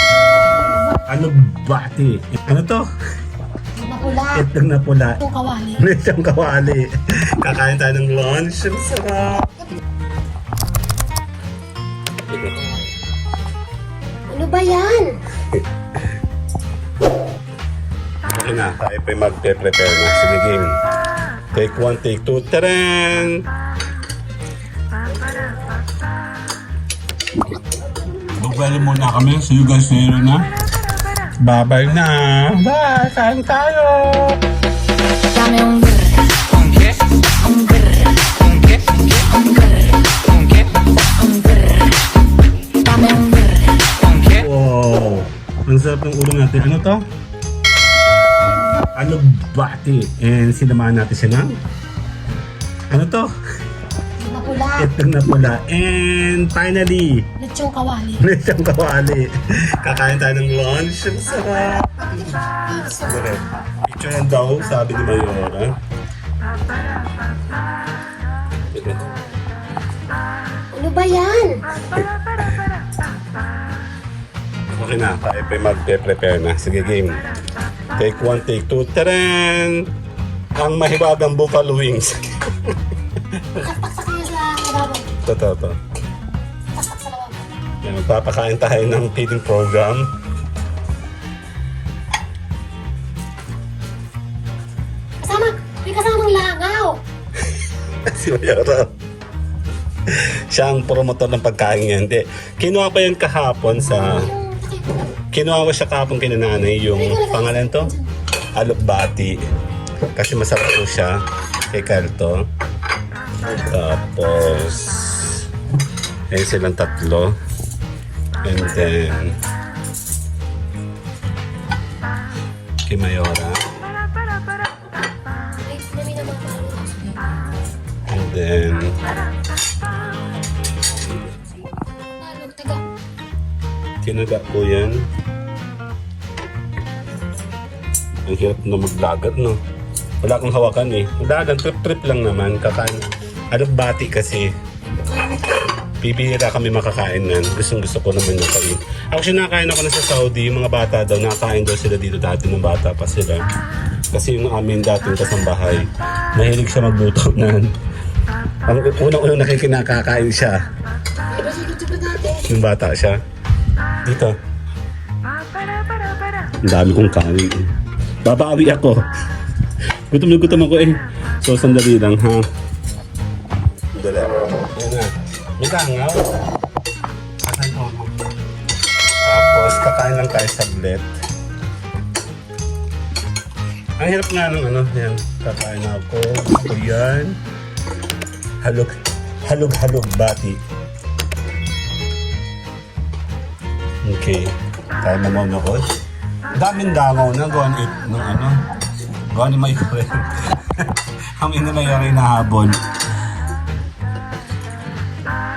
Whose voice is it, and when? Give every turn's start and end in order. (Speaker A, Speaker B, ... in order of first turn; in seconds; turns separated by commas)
Speaker A: 1.1-2.9, Speaker B: 3.8-4.5, Speaker A: 4.3-5.2, Speaker B: 5.2-5.9, Speaker A: 5.8-9.6, Speaker A: 12.3-12.7, Speaker B: 14.3-15.2, Speaker A: 18.3-20.8, Speaker A: 21.5-23.4, Speaker A: 28.3-30.5, Speaker A: 31.4-34.4, Speaker B: 35.3-36.1, Speaker C: 36.1-39.5, Speaker B: 37.4-38.1, Speaker B: 39.3-40.0, Speaker C: 40.1-40.9, Speaker B: 41.2-41.8, Speaker B: 42.8-43.8, Speaker C: 43.8-44.5, Speaker A: 44.3-47.0, Speaker A: 48.9-51.6, Speaker A: 52.9-53.3, Speaker B: 54.2-54.9, Speaker A: 54.8-57.3, Speaker B: 57.4-58.3, Speaker A: 58.2-62.4, Speaker B: 62.1-63.3, Speaker A: 63.0-65.8, Speaker A: 68.7-69.1, Speaker B: 70.7-71.8, Speaker A: 72.0-72.6, Speaker A: 74.7-77.2, Speaker A: 78.0-79.9, Speaker A: 80.6-82.7, Speaker A: 83.3-83.7, Speaker B: 83.6-85.1, Speaker A: 85.2-85.8, Speaker B: 86.8-87.5, Speaker A: 87.8-90.1, Speaker B: 95.2-97.0, Speaker A: 98.1-98.9, Speaker A: 100.1-104.3, Speaker B: 104.1-105.0, Speaker A: 105.3-107.9, Speaker B: 106.9-108.1, Speaker A: 108.5-109.4, Speaker A: 110.1-111.2, Speaker A: 111.7-112.5, Speaker A: 113.4-115.4, Speaker A: 116.3-117.3, Speaker A: 118.4-119.4, Speaker A: 122.9-123.6, Speaker B: 125.6-127.3, Speaker A: 128.1-129.0, Speaker B: 132.2-132.8, Speaker A: 134.0-135.0, Speaker A: 138.2-139.6, Speaker A: 140.2-144.5, Speaker A: 146.0-153.4, Speaker A: 154.1-157.7, Speaker A: 158.7-160.6, Speaker B: 161.3-162.5, Speaker A: 162.4-163.2, Speaker A: 164.0-164.3, Speaker A: 166.6-167.7, Speaker A: 168.2-169.0, Speaker A: 170.1-172.5, Speaker A: 173.9-176.3, Speaker A: 177.4-178.1, Speaker A: 179.2-181.1, Speaker A: 184.0-187.4, Speaker A: 188.6-190.6, Speaker A: 194.0-195.9, Speaker A: 196.5-198.7, Speaker A: 199.3-202.8